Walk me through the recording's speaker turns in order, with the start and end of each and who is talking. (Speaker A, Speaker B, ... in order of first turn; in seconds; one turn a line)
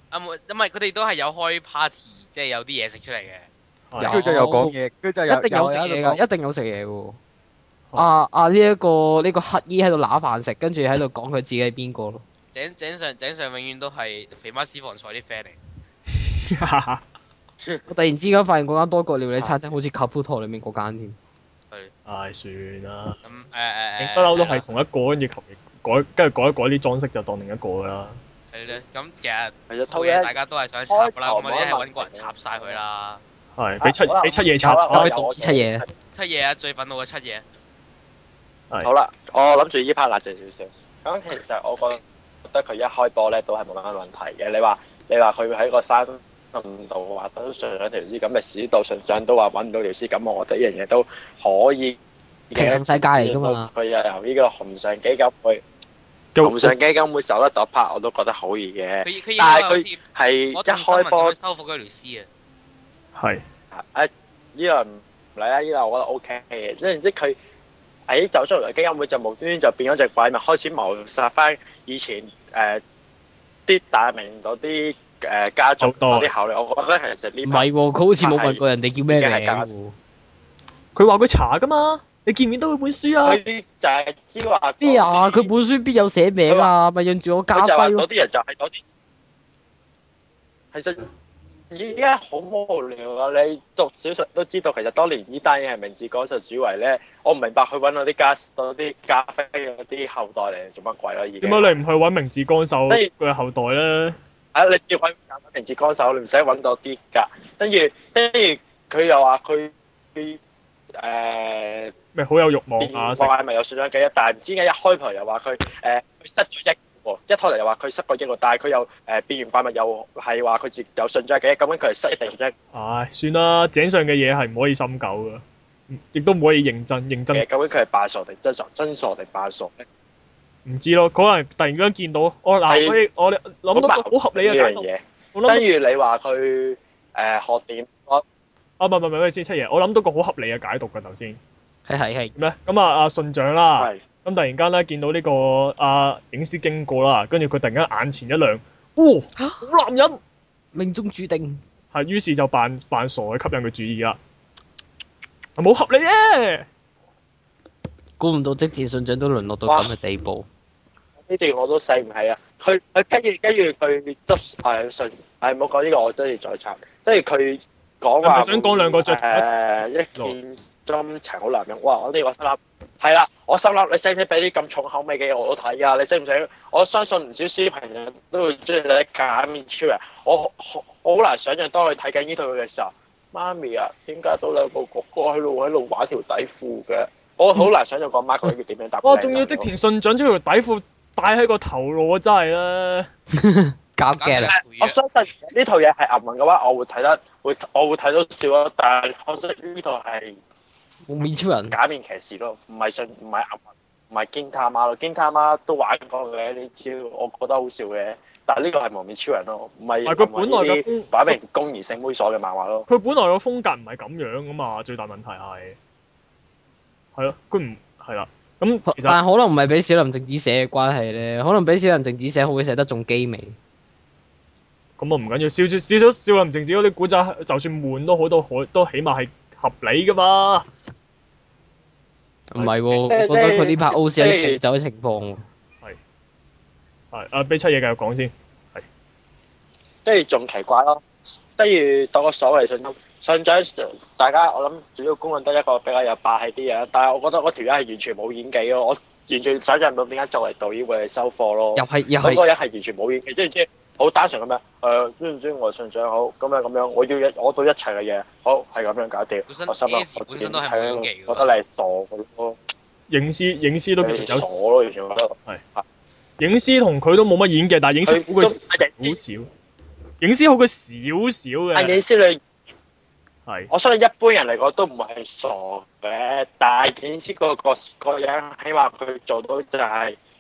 Speaker A: 0.1-3.5
Speaker B: 3.9-4.2
Speaker C: 4.0-4.7
Speaker D: 4.0-6.2
Speaker C: 5.3-7.2
Speaker C: 8.0-12.2
Speaker A: 12.5-15.6
Speaker B: 16.5-17.0
Speaker C: 17.9-21.2
Speaker B: 22.1-23.2
Speaker A: 23.2-24.6
Speaker B: 24.0-28.2
Speaker A: 28.5-33.2
Speaker E: 29.7-30.3
Speaker E: 30.9-32.8
Speaker B: 33.6-35.1
Speaker E: 33.8-35.9
Speaker C: 34.9-35.9
Speaker A: 36.1-37.4
Speaker E: 38.8-52.0
Speaker E: 52.5-55.6
Speaker C: 52.5-53.7
Speaker B: 56.4-56.8
Speaker E: 56.4-61.3
Speaker A: 59.0-60.0
Speaker A: 60.5-62.3
Speaker B: 63.1-63.4
Speaker E: 63.7-67.4
Speaker E: 68.1-72.8
Speaker E: 73.7-79.7
Speaker B: 75.8-76.3
Speaker C: 77.5-79.9
Speaker B: 81.0-83.4
Speaker E: 83.2-85.5
Speaker C: 84.8-88.1
Speaker E: 87.5-88.8
Speaker E: 90.7-91.0
Speaker E: 91.7-101.8
Speaker B: 101.4-104.2
Speaker E: 104.5-110.4
Speaker E: 111.0-111.9
Speaker B: 112.2-113.3
Speaker E: 112.8-122.5
Speaker B: 122.7-127.5
Speaker E: 127.3-129.8
Speaker B: 130.7-135.7
Speaker E: 132.7-133.0
Speaker E: 133.7-138.2
Speaker B: 138.8-141.4
Speaker C: 141.9-142.3
Speaker B: 142.4-150.2
Speaker E: 143.8-144.0
Speaker C: 150.7-151.6
Speaker B: 151.9-154.2
Speaker B: 155.6-156.7
Speaker C: 158.2-160.5
Speaker E: 159.7-160.0
Speaker E: 161.3-189.7
Speaker B: 168.2-169.5
Speaker B: 189.0-193.1
Speaker C: 193.3-194.6
Speaker A: 194.2-195.0
Speaker E: 194.5-200.3
Speaker C: 201.1-201.8
Speaker E: 201.7-212.9
Speaker B: 210.1-211.4
Speaker B: 212.9-215.8
Speaker B: 217.2-219.2
Speaker C: 218.9-223.6
Speaker B: 225.0-230.7
Speaker C: 232.5-235.4
Speaker B: 232.6-233.1
Speaker E: 233.1-234.6
Speaker B: 237.1-238.8
Speaker E: 240.1-241.1
Speaker E: 241.6-262.6
Speaker C: 251.8-252.4
Speaker A: 259.5-261.5
Speaker B: 263.1-264.7
Speaker E: 264.0-265.9
Speaker B: 266.4-269.5
Speaker E: 268.1-269.2
Speaker B: 270.2-272.0
Speaker E: 271.8-272.4
Speaker E: 273.7-280.2